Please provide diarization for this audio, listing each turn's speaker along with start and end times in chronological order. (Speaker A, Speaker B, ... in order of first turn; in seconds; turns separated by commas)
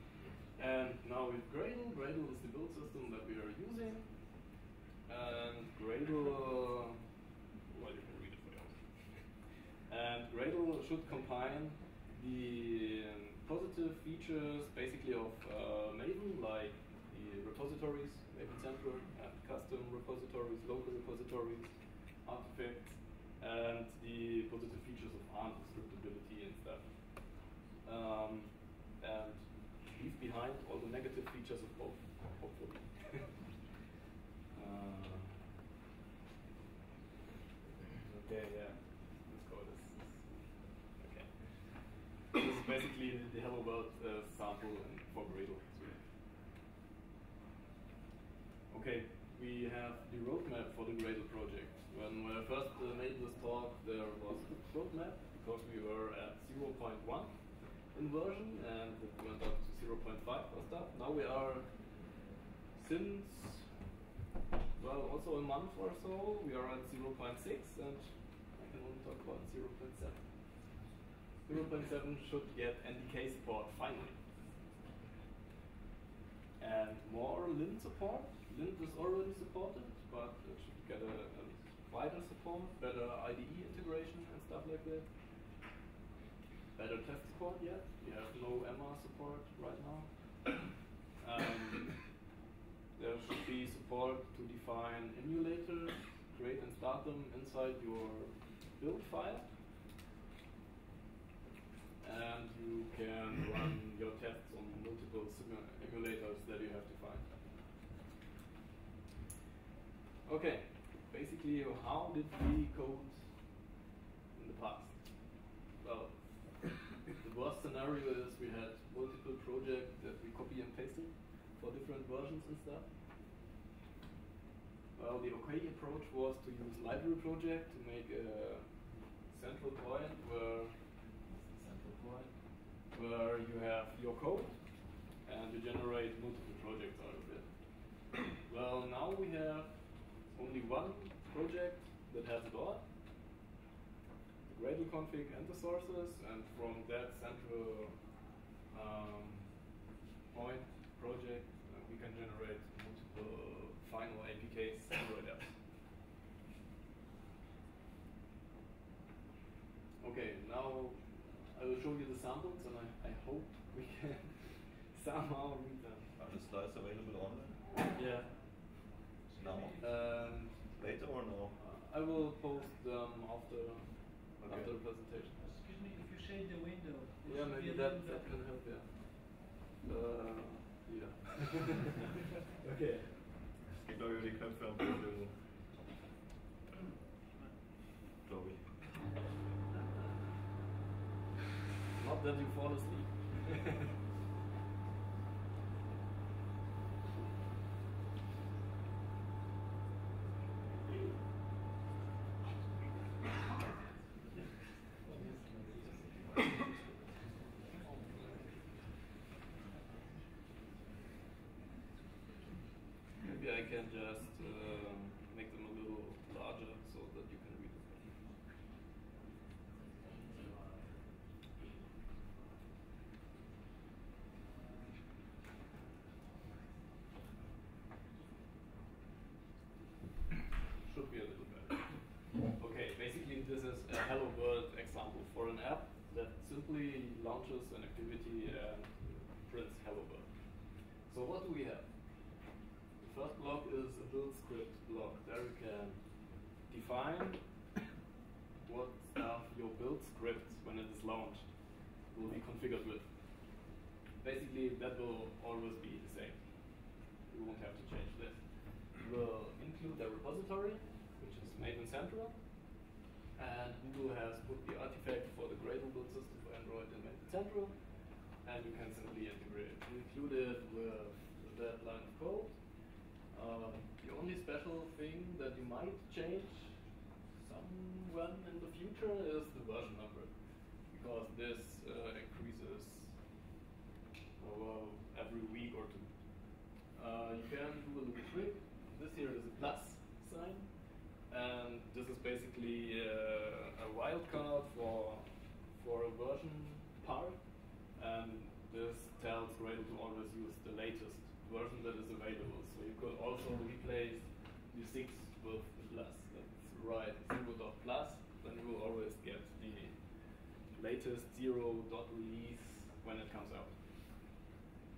Speaker A: 0.5-4.4, Speaker A: 5.1-7.1, Speaker A: 7.7-33.6, Speaker A: 34.5-35.5, Speaker A: 37.9-46.1, Speaker A: 48.7-62.2, Speaker A: 62.7-63.8, Speaker A: 64.8-70.5, Speaker A: 71.4-74.3, Speaker A: 76.6-85.1, Speaker A: 86.8-90.7, Speaker A: 91.2-92.1, Speaker A: 93.0-99.5, Speaker A: 102.0-107.3, Speaker A: 110.2-113.5, Speaker A: 114.3-122.9, Speaker A: 125.0-142.9, Speaker A: 144.5-148.0, Speaker A: 148.7-149.6, Speaker A: 150.3-155.6, Speaker A: 160.0-166.1, Speaker B: 166.2-167.6, Speaker A: 167.9-168.3, Speaker B: 169.4-170.2, Speaker C: 169.4-169.8, Speaker A: 169.8-170.8, Speaker B: 170.8-171.6, Speaker A: 171.6-175.4, Speaker B: 174.4-174.7, Speaker C: 175.4-178.4, Speaker A: 177.2-183.3, Speaker B: 183.8-185.3, Speaker B: 188.2-188.9, Speaker A: 189.9-190.2, Speaker A: 191.9-193.8, Speaker A: 213.2-218.2, Speaker A: 230.8-241.9, Speaker A: 243.0-247.4, Speaker A: 248.6-253.5, Speaker A: 254.2-262.8, Speaker A: 263.4-272.7, Speaker A: 273.3-283.2, Speaker A: 284.4-313.8